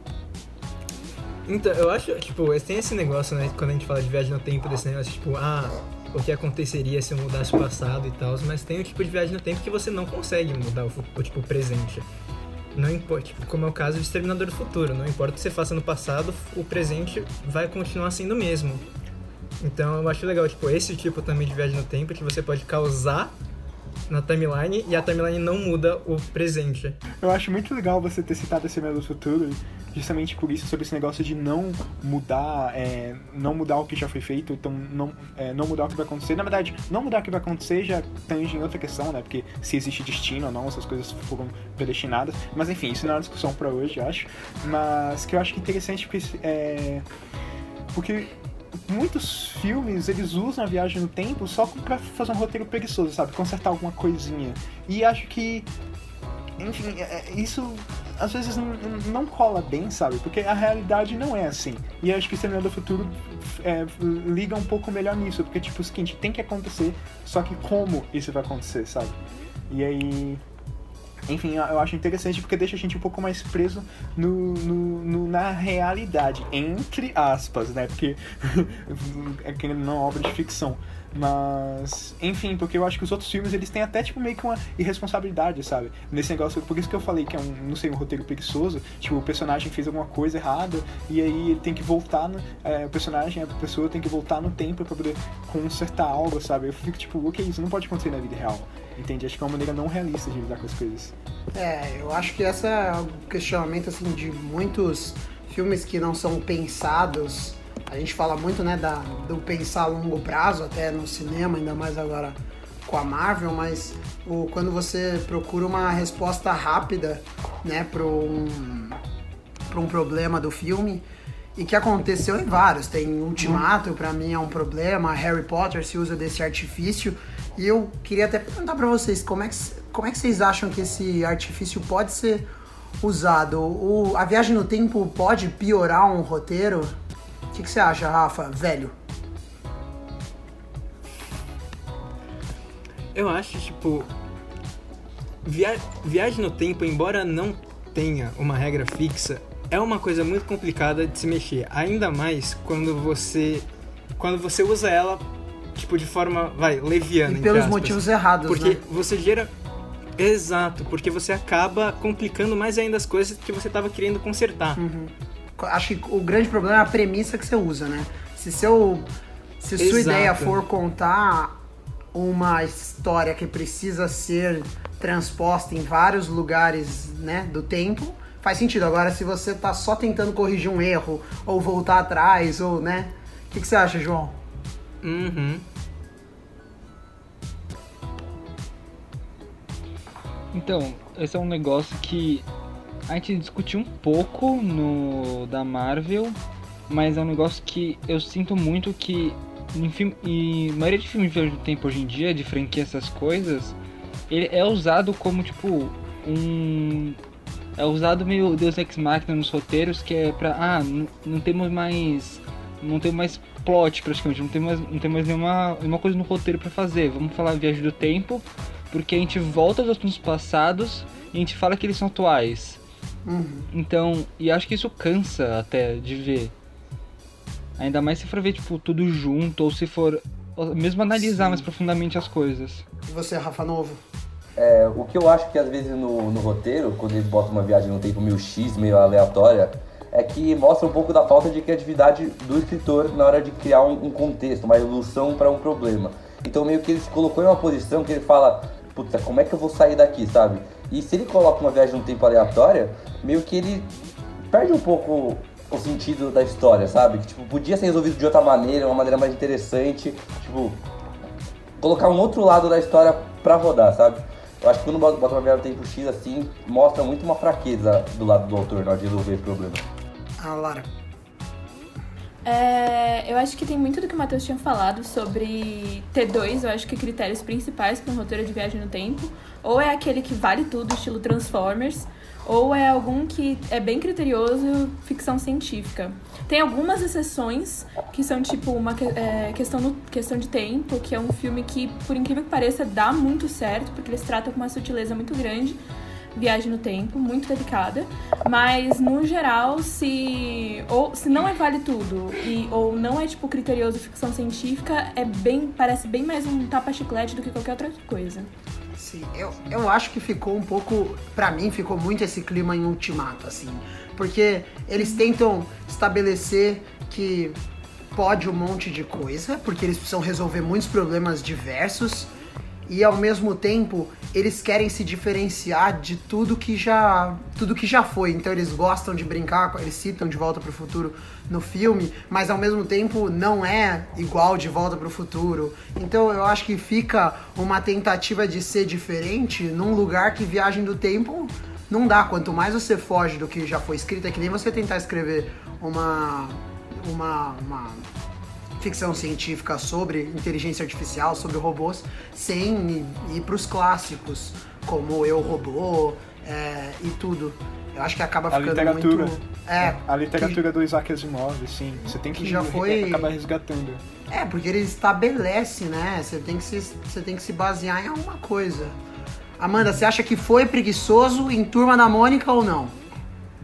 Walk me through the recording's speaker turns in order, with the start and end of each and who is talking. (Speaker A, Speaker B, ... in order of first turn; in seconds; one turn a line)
Speaker A: 1.5-12.1
Speaker A: 12.7-18.8
Speaker A: 19.6-23.4
Speaker A: 24.1-27.0
Speaker B: 27.2-47.0
Speaker B: 47.9-48.3
Speaker B: 48.9-55.7
Speaker B: 56.6-69.2
Speaker B: 69.7-70.4
Speaker B: 71.3-101.2
Speaker C: 101.5-119.0
Speaker C: 119.7-121.0
Speaker C: 121.6-132.5
Speaker C: 133.0-136.9
Speaker C: 137.5-138.9
Speaker A: 143.1-144.1
Speaker A: 145.4-159.5
Speaker C: 157.2-158.8
Speaker A: 160.2-164.8
Speaker C: 164.8-169.1
Speaker C: 169.6-171.6
Speaker A: 169.8-170.6
Speaker C: 172.1-184.4
Speaker A: 185.0-185.7
Speaker D: 190.5-192.5
Speaker D: 193.1-196.4
Speaker D: 196.9-203.8
Speaker D: 204.3-207.2
Speaker D: 207.8-222.8
Speaker C: 223.2-223.7
Speaker D: 223.7-226.5
Speaker D: 227.8-232.9
Speaker C: 231.2-231.7
Speaker C: 233.1-234.0
Speaker E: 234.6-253.9
Speaker E: 254.5-260.8
Speaker E: 261.8-269.8
Speaker C: 270.4-270.9
Speaker F: 272.4-295.8
Speaker F: 296.3-308.5
Speaker C: 309.0-317.6
Speaker C: 318.1-322.3
Speaker C: 322.9-348.1
Speaker C: 348.8-360.6
Speaker B: 358.5-364.0
Speaker C: 362.3-363.3
Speaker C: 364.3-369.0
Speaker C: 369.6-373.0